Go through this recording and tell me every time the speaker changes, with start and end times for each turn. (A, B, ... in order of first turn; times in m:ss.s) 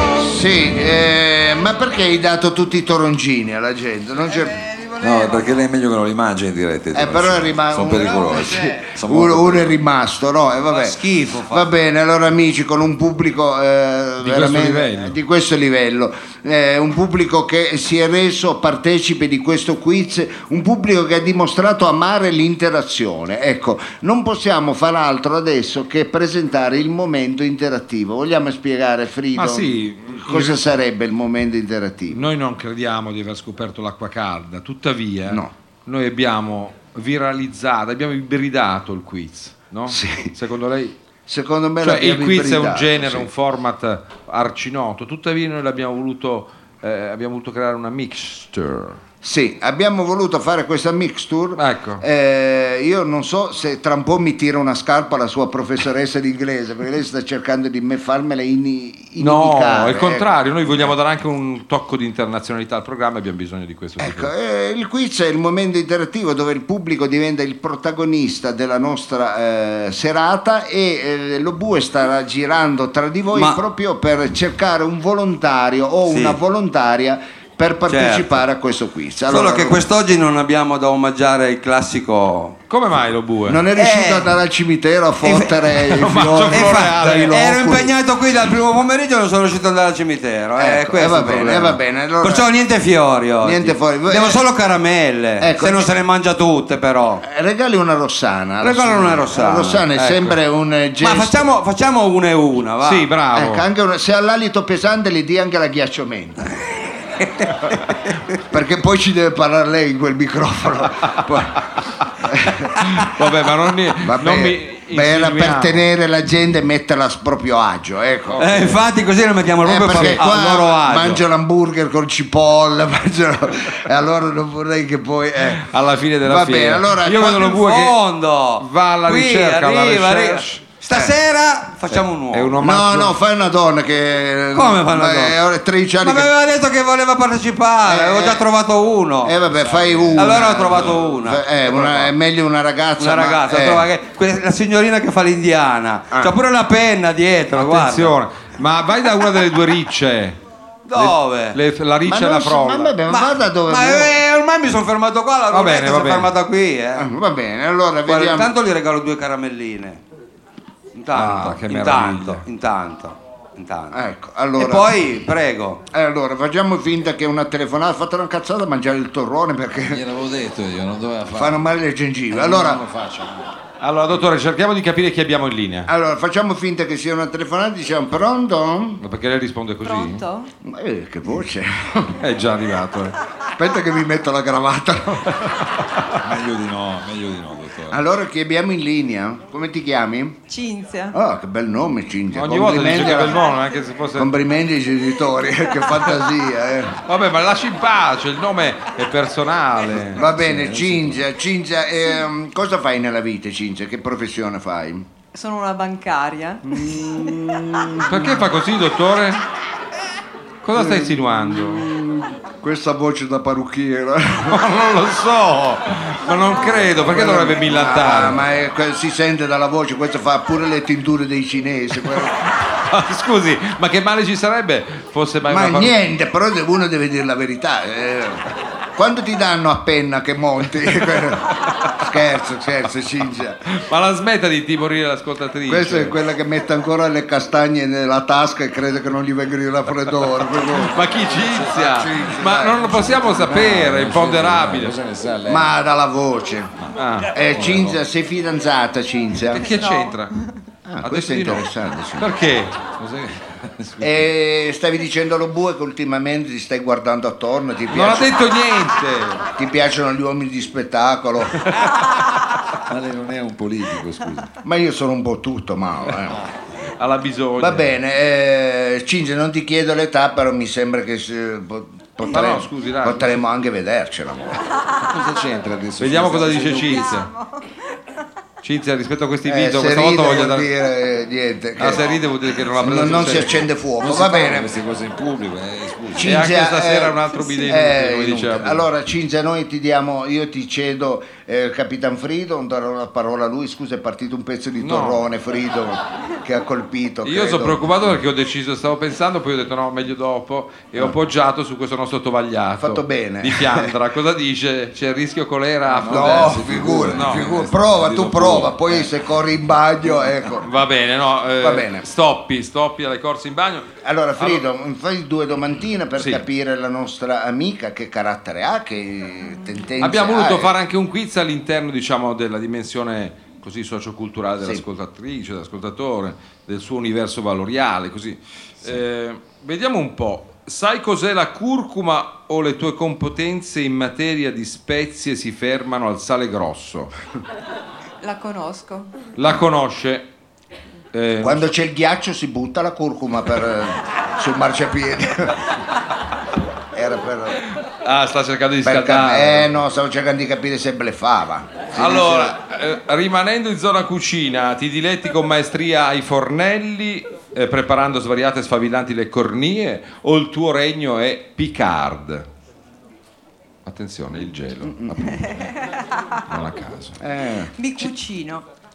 0:00.1-0:04.6 A
0:04.2-0:05.5 B
0:05.0-0:09.8 C
0:06.9-0:32.2 A
0:08.2-0:08.8 B
0:10.7-0:11.7 B
0:14.2-0:15.1 D
0:29.4-0:30.7 D
0:32.1-0:41.0 D
0:39.9-0:40.3 A
0:41.3-0:43.3 A
0:41.8-0:49.0 D
0:49.2-1:00.9 A
0:51.6-0:52.0 D
0:59.2-1:04.3 D
1:04.0-1:19.8 A
1:13.3-1:13.6 B
1:16.1-1:16.4 B
1:17.9-1:18.3 B
1:19.3-1:22.6 B
1:22.7-1:23.6 D
1:23.5-1:27.9 A
1:23.7-1:24.3 B
1:25.2-1:25.5 B
1:25.9-1:27.3 D
1:26.5-1:37.2 B
1:30.6-1:32.5 A
1:33.4-1:34.4 A
1:35.4-1:35.9 A
1:37.2-1:41.4 A
1:38.6-1:39.8 B
1:40.0-1:40.4 D
1:41.0-1:43.0 B
1:42.8-1:43.6 D
1:43.3-1:46.6 A
1:48.4-1:51.6 A
1:52.2-1:52.8 A
1:52.8-1:55.8 D
1:54.0-1:58.7 A
1:58.3-1:58.7 D
1:58.4-2:01.2 B
1:59.6-2:05.7 A
1:59.9-2:00.2 D
2:05.6-2:08.0 D
2:06.2-2:07.6 A
2:07.4-2:12.5 B
2:08.6-2:10.6 D
2:11.9-2:13.2 D
2:12.6-2:16.3 A
2:14.5-2:15.4 B
2:16.0-2:19.4 B
2:17.8-2:18.4 A
2:19.2-2:23.9 A
2:19.5-2:20.2 C
2:20.2-2:22.1 B
2:20.4-2:20.8 D
2:23.0-2:28.2 B
2:27.5-2:30.4 D
2:30.9-2:31.6 B
2:30.9-2:33.0 D
2:32.0-2:34.1 A
2:33.1-2:37.0 B
2:35.5-2:36.3 D
2:37.0-2:38.5 A
2:38.1-2:40.0 B
2:40.9-2:44.0 B
2:41.1-2:42.4 D
2:43.9-2:45.0 A
2:44.6-2:45.8 B
2:45.9-2:50.0 A
2:49.8-2:51.6 C
2:51.3-2:52.8 A
2:52.3-2:53.5 C
2:53.8-2:55.9 D
2:55.9-2:59.0 A
2:59.0-3:00.2 D
2:59.8-3:00.5 E
3:00.6-3:02.2 A
3:02.2-3:03.1 D
3:03.5-3:05.6 A
3:05.4-3:06.2 D
3:06.2-3:08.0 C
3:07.9-3:10.4 A
3:10.5-3:11.2 E
3:11.1-3:13.4 A
3:12.3-3:14.3 D
3:14.2-3:17.0 A
3:17.0-3:20.2 D
3:20.2-3:25.1 A
3:20.2-3:21.2 C
3:25.3-3:27.4 E
3:26.6-3:28.3 A
3:28.0-3:29.4 D
3:30.6-3:31.8 D
3:30.7-3:34.6 A
3:34.5-3:38.4 D
3:36.9-3:42.4 A
3:42.1-3:46.0 D
3:45.5-3:53.6 A
3:53.6-3:56.1 D
3:55.7-4:01.0 A
4:00.6-4:05.0 D
4:01.7-4:03.2 A
4:02.9-4:05.8 C
4:05.5-4:06.7 A
4:06.8-4:08.0 C
4:07.0-4:07.3 D
4:07.3-4:09.7 A
4:09.5-4:10.3 D
4:09.6-4:10.6 E
4:10.8-4:12.3 A
4:11.0-4:11.7 D
4:12.2-4:12.9 D
4:13.0-4:14.1 C
4:14.0-4:18.3 A
4:17.9-4:19.4 D
4:19.5-4:21.7 A
4:22.8-4:24.5 C
4:24.6-4:26.4 A
4:27.0-4:27.9 D
4:27.6-4:34.6 A
4:32.3-4:33.4 D
4:35.0-4:37.1 C
4:36.0-4:37.3 D
4:36.9-4:37.7 E
4:38.6-4:40.7 D
4:39.4-4:42.0 A
4:41.8-4:43.7 D
4:42.8-4:44.7 A
4:44.0-4:46.4 C
4:46.2-4:57.8 A
4:46.2-4:48.8 D
4:54.8-4:55.2 D
4:57.2-5:07.5 D
5:02.8-5:03.9 A
5:05.9-5:09.1 C
5:06.1-5:10.7 A
5:10.6-5:14.6 D
5:11.6-5:12.0 A
5:14.0-5:20.7 A
5:20.0-5:37.1 D
5:38.2-5:39.1 E
5:39.4-5:40.2 D
5:41.1-5:41.7 D
5:41.4-5:45.6 A
5:46.9-5:47.6 A
5:48.0-5:49.7 D
5:48.8-5:52.5 A
5:51.9-6:02.4 D
6:03.8-6:05.7 D
6:04.8-6:05.3 A
6:05.4-6:06.0 E
6:06.5-6:07.2 D
6:07.2-6:07.7 A
6:07.7-6:08.6 E